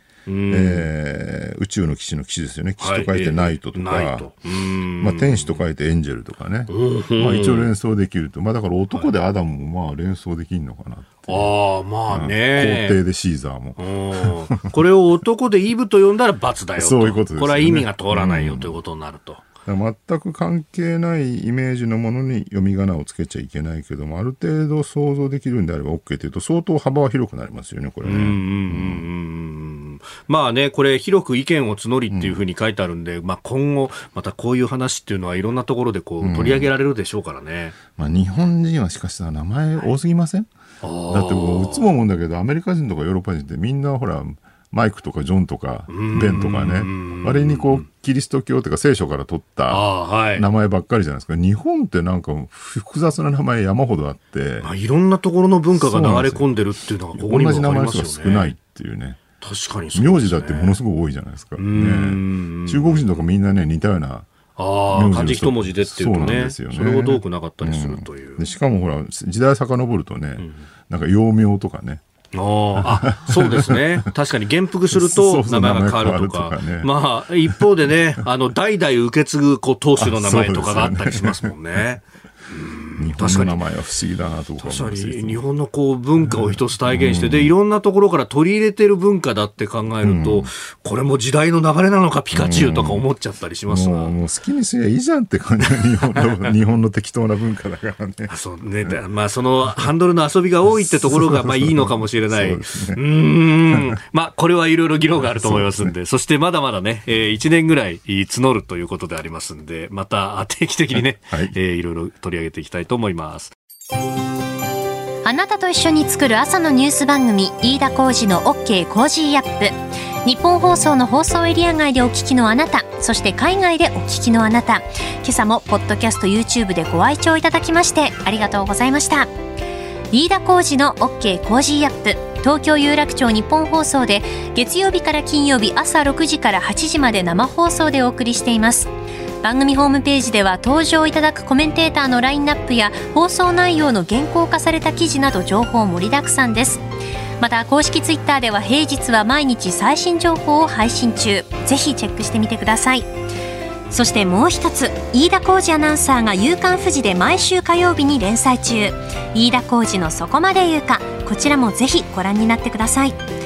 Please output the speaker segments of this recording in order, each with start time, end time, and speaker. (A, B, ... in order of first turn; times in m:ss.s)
0:00.2-0:00.9 A
0:00.5-0:04.4 B
0:02.8-0:05.6 A
0:05.0-0:11.5 B
0:06.7-0:07.7 A
0:11.3-0:13.0 A
0:12.1-0:14.6 B
0:13.8-0:19.4 A
0:16.8-0:18.8 B
0:19.6-0:29.1 B
0:28.0-0:37.8 A
0:32.1-0:32.4 B
0:36.2-0:36.7 B
0:38.0-0:40.5 B
0:40.8-0:41.9 A
0:41.1-0:54.7 B
0:45.9-0:47.9 A
0:49.7-0:50.4 A
0:54.6-0:58.6 A
0:55.7-0:56.5 B
0:57.1-0:59.2 B
0:59.4-1:00.8 A
0:59.9-1:04.3 B
1:01.6-1:03.0 A
1:04.6-1:08.4 A
1:04.9-1:12.0 B
1:10.4-1:10.7 A
1:12.3-1:23.6 A
1:12.8-1:14.1 B
1:14.9-1:16.9 B
1:20.0-1:21.5 B
1:23.0-1:25.4 B
1:24.6-1:34.1 A
1:26.2-1:27.5 B
1:30.0-1:30.5 B
1:32.3-1:33.0 B
1:33.7-1:38.3 B
1:38.3-1:53.5 A
1:40.8-1:43.0 B
1:45.2-1:45.9 B
1:51.3-1:51.5 B
1:55.2-2:09.3 C
2:10.1-2:18.9 C
2:19.4-2:26.8 C
2:27.4-2:33.1 C
2:33.9-2:43.2 C